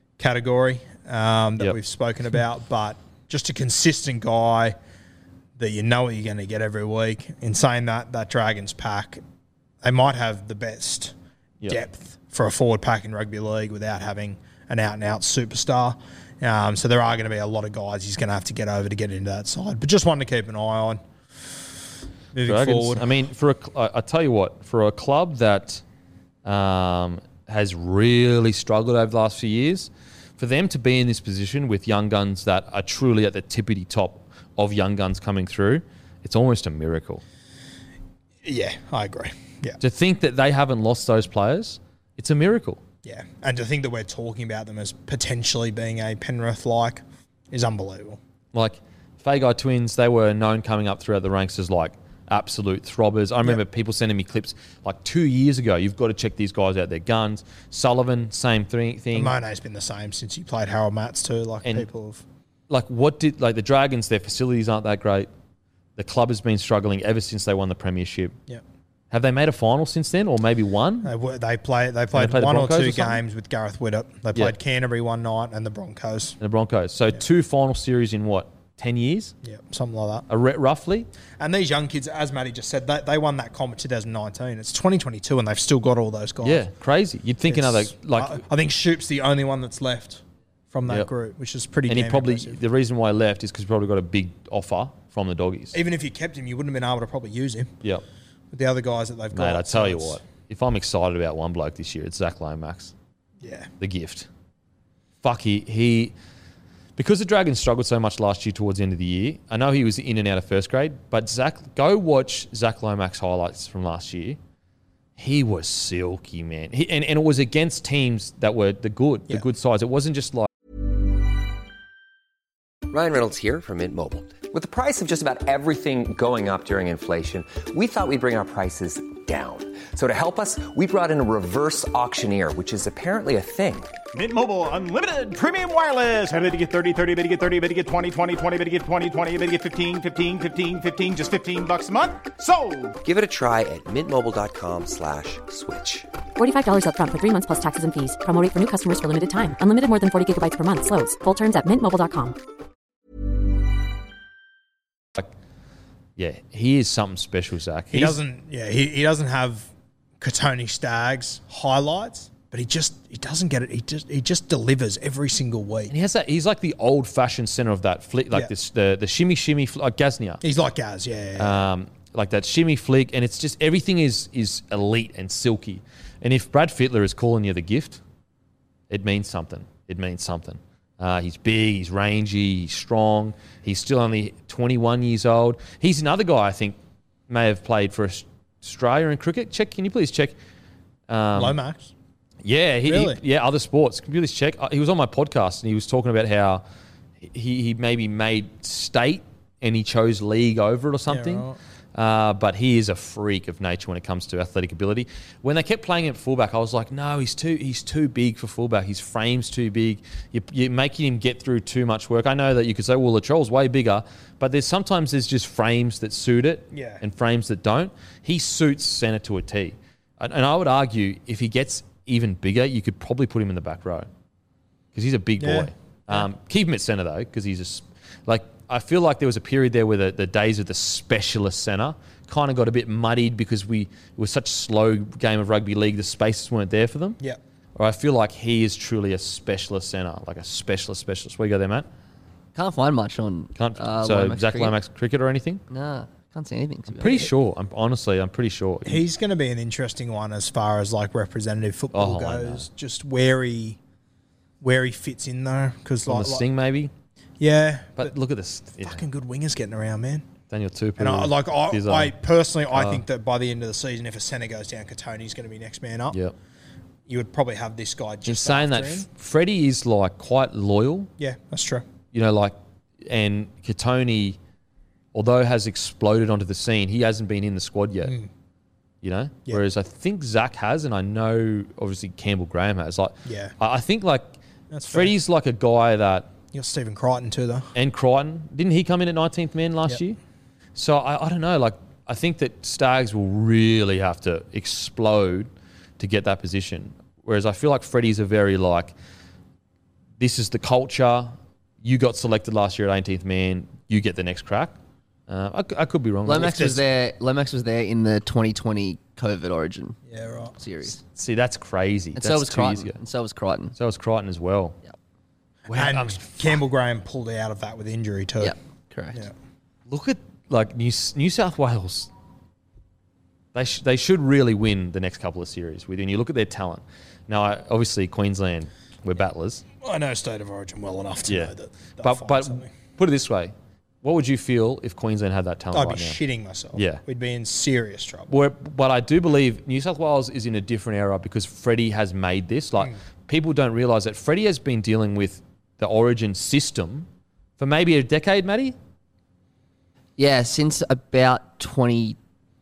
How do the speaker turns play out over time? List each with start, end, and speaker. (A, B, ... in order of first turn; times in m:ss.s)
0:00.2-0:04.8 A
0:05.6-0:09.2 A
0:09.8-0:11.2 A
0:11.7-0:21.0 A
0:22.3-0:23.1 A
0:22.5-0:25.8 B
0:26.4-0:37.2 B
0:38.4-0:39.8 A
0:39.8-0:42.8 B
0:43.0-0:48.2 A
0:48.5-0:59.4 B
0:59.1-1:02.2 A
1:02.7-1:05.3 B
1:06.0-1:08.4 B
1:09.1-1:11.1 B
1:11.0-1:16.4 A
1:12.1-1:13.2 B
1:16.4-1:19.3 B
1:19.4-1:20.3 A
1:20.3-1:21.1 B
1:21.4-1:26.7 A
1:26.4-1:28.4 B
1:27.5-1:32.6 A
1:31.9-1:35.8 B
1:35.7-1:37.7 A
1:38.5-1:40.2 A
1:39.3-1:42.9 B
1:43.4-1:43.7 A
1:43.8-1:44.3 B
1:45.2-1:46.1 B
1:47.0-1:54.4 B
1:55.2-2:00.5 B
2:02.9-2:13.9 C
2:14.1-2:23.0 D
2:23.0-2:26.1 C
2:26.4-2:32.4 E
2:36.2-2:38.2 B
2:37.9-2:45.9 A
2:45.9-2:50.4 B
2:50.4-2:51.7 A
2:51.4-2:58.0 B
2:58.9-3:06.8 B
3:07.3-3:10.4 B
3:11.1-3:11.6 B
3:11.3-3:11.9 A
3:12.4-3:16.6 B
3:12.8-3:13.2 A
3:17.2-3:44.1 B
3:21.1-3:21.6 A
3:36.7-3:37.0 A
3:44.9-3:57.2 B
3:45.4-3:46.3 A
3:57.8-4:01.9 B
4:02.6-4:04.8 F
4:03.6-4:05.6 B
4:05.7-4:07.2 F
4:06.9-4:09.1 B
4:08.9-4:13.8 A
4:11.9-4:12.6 B
4:14.6-4:16.5 A
4:16.1-4:16.9 B
4:17.4-4:18.1 A
4:18.0-4:19.0 B
4:18.8-4:20.3 A
4:20.5-4:22.1 B
4:21.0-4:26.2 A
4:22.7-4:23.0 B
4:27.1-4:29.1 A
4:28.3-4:31.1 B
4:31.2-4:31.9 A
4:32.1-4:34.4 B
4:35.1-4:38.2 B
4:38.0-4:38.3 A
4:39.0-4:44.3 B
4:43.2-4:43.5 A
4:44.7-4:45.1 A
4:44.9-4:46.3 B
4:46.5-4:47.7 A
4:47.8-4:50.2 B
4:50.8-4:58.9 B
5:00.2-5:04.8 B
5:05.3-5:06.8 B
5:06.3-5:10.0 F
5:06.4-5:06.8 A
5:10.1-5:10.6 A
5:10.6-5:11.0 F
5:11.2-5:13.0 B
5:12.2-5:13.8 F
5:13.8-5:14.8 B
5:15.7-5:16.6 B
5:15.7-5:18.6 A
5:18.4-5:19.2 F
5:19.9-5:22.1 B
5:23.5-5:29.6 B
5:29.8-5:32.7 A
5:31.3-5:36.2 B
5:35.7-5:38.3 A
5:36.7-5:37.0 B
5:38.3-5:47.1 B
5:47.6-5:48.8 B
5:50.2-5:52.2 F